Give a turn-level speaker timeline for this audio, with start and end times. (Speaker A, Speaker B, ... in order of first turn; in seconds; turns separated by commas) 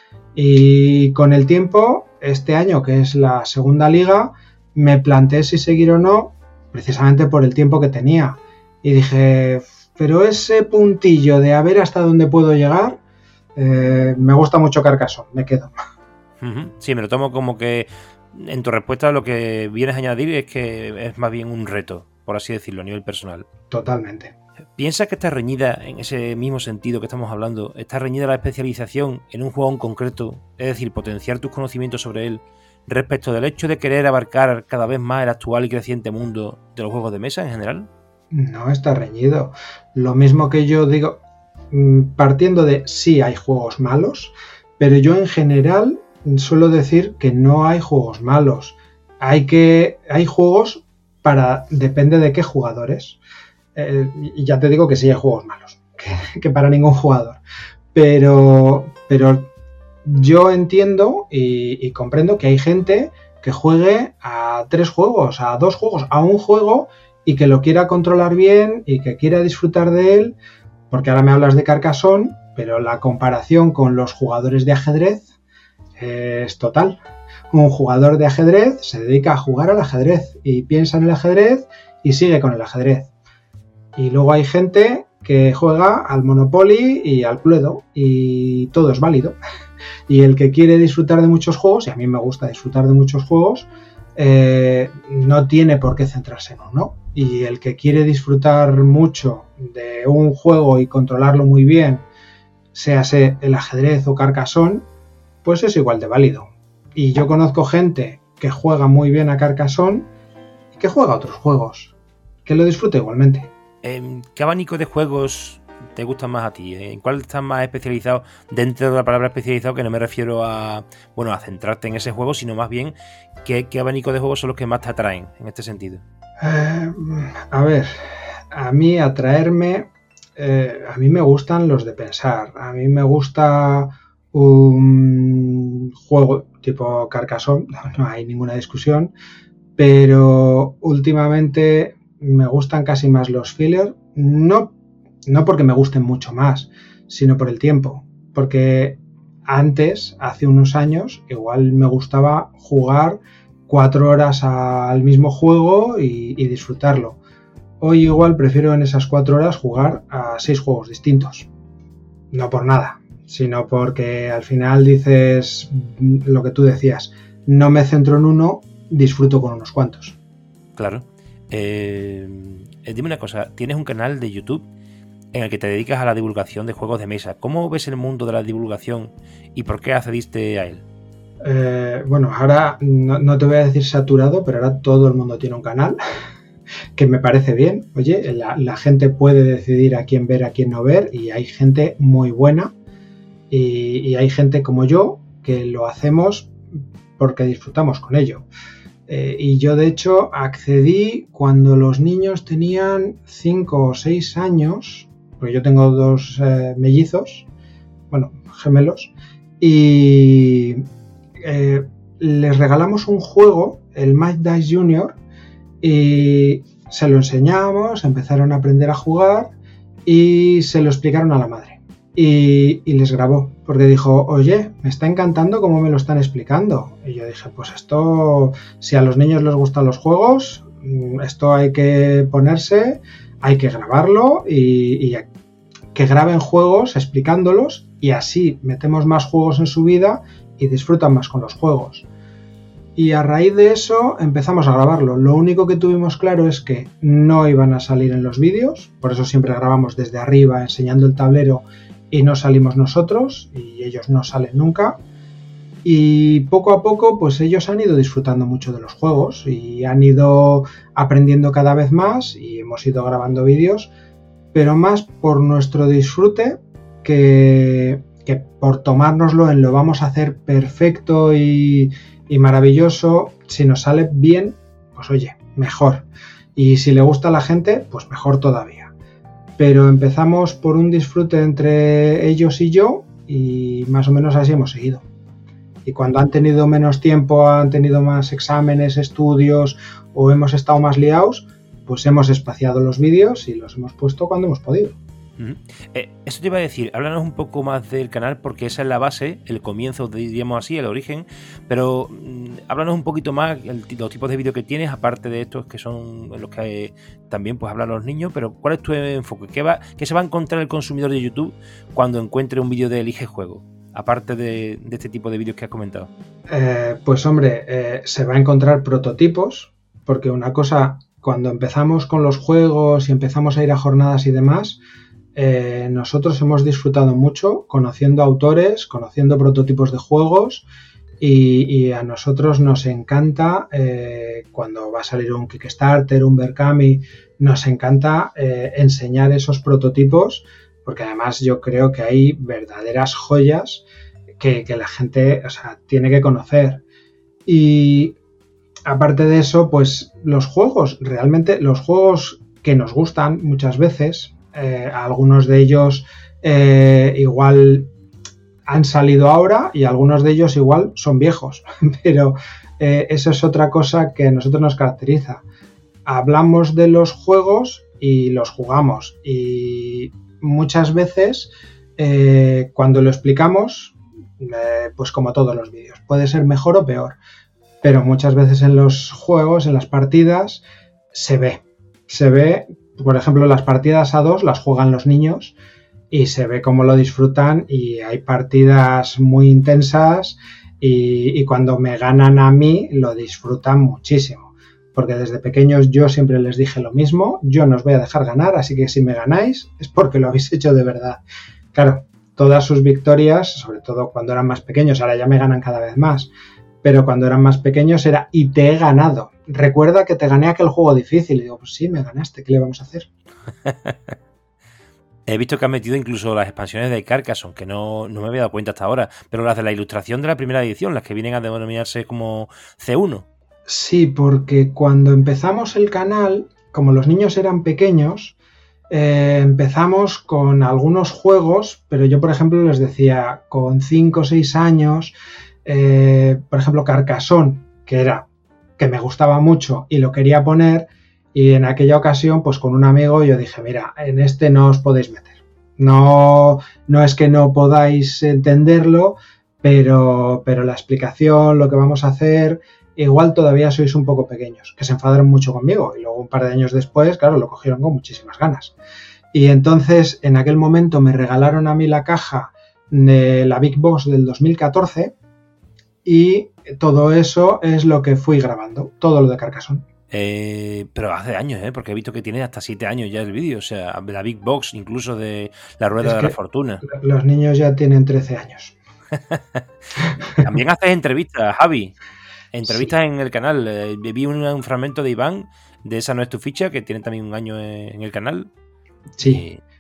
Speaker A: 0.3-13.0, Speaker A: 13.6-15.7, Speaker B: 16.4-23.5, Speaker A: 23.7-24.3, Speaker B: 24.8-37.9, Speaker A: 38.3-41.2, Speaker A: 41.7-53.2, Speaker A: 53.8-57.4, Speaker A: 57.9-59.5, Speaker A: 60.0-70.4, Speaker A: 70.9-75.3, Speaker A: 76.0-77.0, Speaker A: 77.5-83.1, Speaker A: 84.0-89.4, Speaker A: 90.1-102.1, Speaker A: 102.7-104.9, Speaker A: 105.4-110.1, Speaker A: 110.7-111.9, Speaker A: 112.5-113.5, Speaker B: 113.8-126.0, Speaker A: 126.4-139.1, Speaker A: 139.8-144.8, Speaker A: 145.3-157.2, Speaker A: 157.8-161.5, Speaker A: 162.3-170.2, Speaker B: 170.8-174.7, Speaker B: 175.3-180.8, Speaker A: 181.4-186.0, Speaker A: 187.0-192.7, Speaker A: 193.5-196.5, Speaker A: 197.2-198.5, Speaker A: 199.1-207.5, Speaker A: 208.1-210.8, Speaker A: 211.4-215.2, Speaker A: 215.8-219.5, Speaker A: 220.1-235.3, Speaker A: 235.9-242.1, Speaker A: 243.0-255.0, Speaker A: 255.8-263.9, Speaker A: 264.5-278.9, Speaker A: 279.6-285.1, Speaker A: 285.9-295.0, Speaker B: 295.4-316.1, Speaker A: 316.5-324.8, Speaker A: 325.4-330.6, Speaker A: 331.2-343.9, Speaker A: 344.4-346.8, Speaker A: 347.5-348.2, Speaker A: 348.9-357.9, Speaker A: 358.7-365.4, Speaker A: 366.1-377.2, Speaker A: 377.8-385.5, Speaker A: 386.1-401.2, Speaker A: 401.7-406.3, Speaker A: 406.8-413.1, Speaker B: 413.6-414.1, Speaker B: 415.3-423.3, Speaker A: 423.7-428.4, Speaker A: 428.9-435.1, Speaker A: 435.6-438.3, Speaker A: 438.8-458.8, Speaker A: 459.3-465.1, Speaker A: 466.1-469.9, Speaker B: 470.1-476.8, Speaker A: 476.0-478.8, Speaker B: 479.1-479.6, Speaker B: 480.4-481.9, Speaker B: 482.5-488.5, Speaker A: 482.7-482.9, Speaker A: 489.2-489.5, Speaker B: 489.2-489.6